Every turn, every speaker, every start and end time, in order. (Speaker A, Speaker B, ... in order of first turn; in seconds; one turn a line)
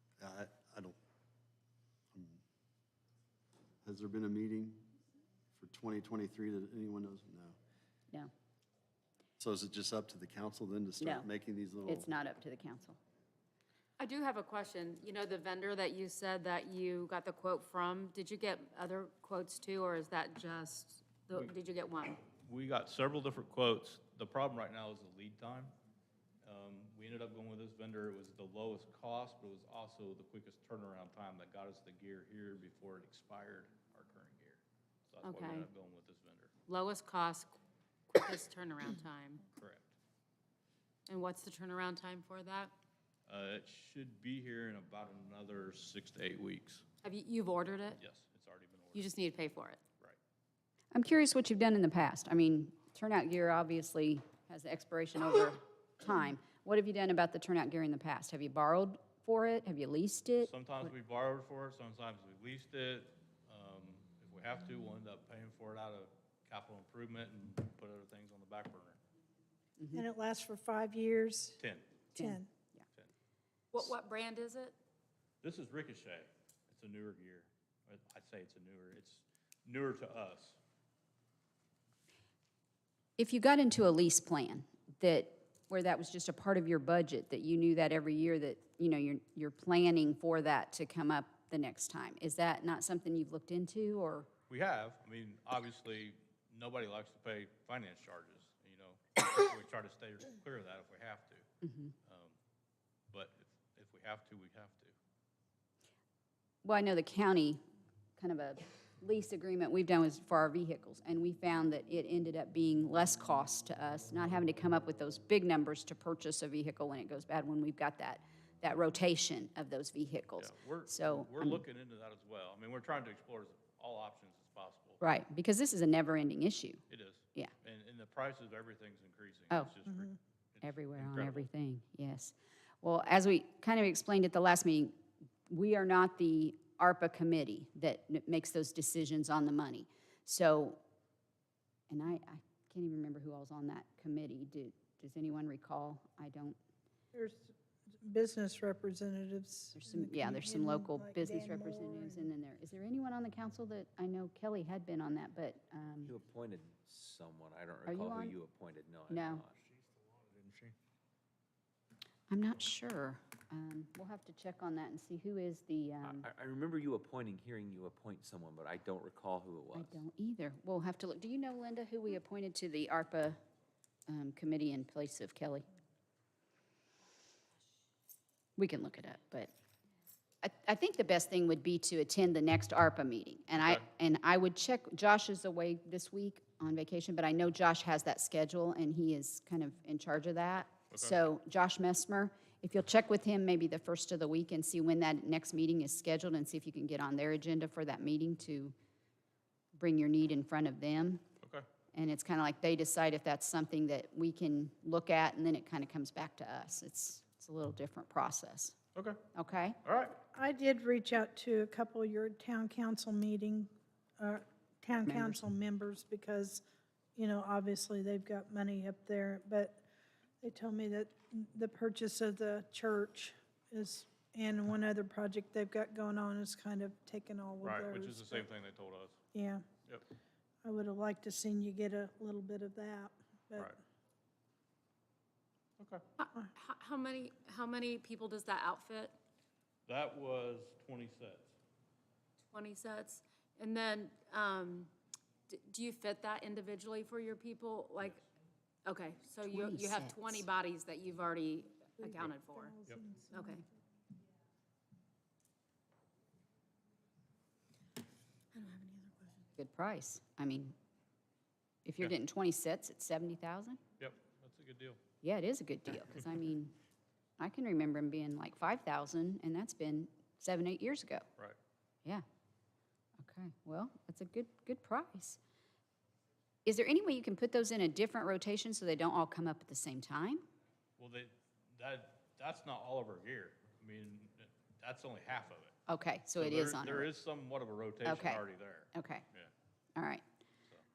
Speaker A: 0.2-1.0
Speaker A: 2.1-2.4
Speaker A: 3.8-4.9
Speaker A: 5.5-7.6
Speaker A: 9.4-12.1
Speaker B: 11.0-11.3
Speaker B: 11.9-13.0
Speaker C: 14.0-22.2
Speaker D: 22.4-25.7
Speaker D: 26.4-36.5
Speaker C: 35.2-35.7
Speaker C: 36.7-37.6
Speaker C: 38.1-39.4
Speaker D: 39.6-39.9
Speaker C: 41.1-42.7
Speaker D: 43.3-46.9
Speaker C: 47.0-48.0
Speaker D: 48.0-49.1
Speaker C: 48.9-49.8
Speaker B: 50.9-60.5
Speaker D: 60.4-69.0
Speaker B: 69.8-70.0
Speaker E: 69.9-71.6
Speaker D: 71.6-71.9
Speaker E: 72.2-72.5
Speaker B: 72.2-72.4
Speaker C: 73.7-74.8
Speaker D: 75.4-80.6
Speaker B: 83.2-94.3
Speaker D: 94.5-101.5
Speaker B: 101.6-101.9
Speaker D: 102.0-102.4
Speaker D: 103.1-105.0
Speaker B: 106.6-107.6
Speaker B: 108.2-121.6
Speaker D: 120.4-125.0
Speaker B: 125.0-126.8
Speaker D: 126.9-131.5
Speaker E: 129.9-130.1
Speaker B: 130.6-134.9
Speaker B: 135.5-140.8
Speaker B: 141.9-146.6
Speaker E: 147.1-152.3
Speaker B: 149.8-156.1
Speaker F: 156.0-159.6
Speaker B: 157.9-158.4
Speaker B: 159.1-159.4
Speaker B: 162.3-166.3
Speaker F: 166.0-170.0
Speaker B: 169.7-173.4
Speaker B: 174.1-175.6
Speaker B: 178.6-179.5
Speaker B: 180.4-198.7
Speaker D: 190.9-191.3
Speaker B: 199.8-201.2
Speaker B: 201.9-208.8
Speaker D: 208.9-209.2
Speaker B: 209.3-209.8
Speaker D: 209.8-210.2
Speaker E: 210.3-216.6
Speaker B: 215.0-215.4
Speaker E: 217.2-219.8
Speaker E: 220.4-228.5
Speaker D: 227.6-229.2
Speaker E: 229.3-229.7
Speaker E: 230.6-233.8
Speaker D: 235.8-236.0
Speaker C: 236.2-239.1
Speaker D: 239.9-241.5
Speaker C: 242.5-244.9
Speaker C: 245.5-248.2
Speaker C: 248.9-252.8
Speaker B: 249.4-250.5
Speaker E: 252.0-253.6
Speaker C: 253.3-253.6
Speaker C: 258.5-259.4
Speaker B: 259.6-260.7
Speaker B: 261.9-263.8
Speaker D: 264.0-265.0
Speaker B: 265.2-266.7
Speaker B: 267.4-271.2
Speaker B: 273.2-275.4
Speaker B: 276.6-280.4
Speaker D: 281.0-285.7
Speaker B: 285.9-287.1
Speaker D: 286.4-289.5
Speaker B: 288.1-289.2
Speaker B: 290.0-290.2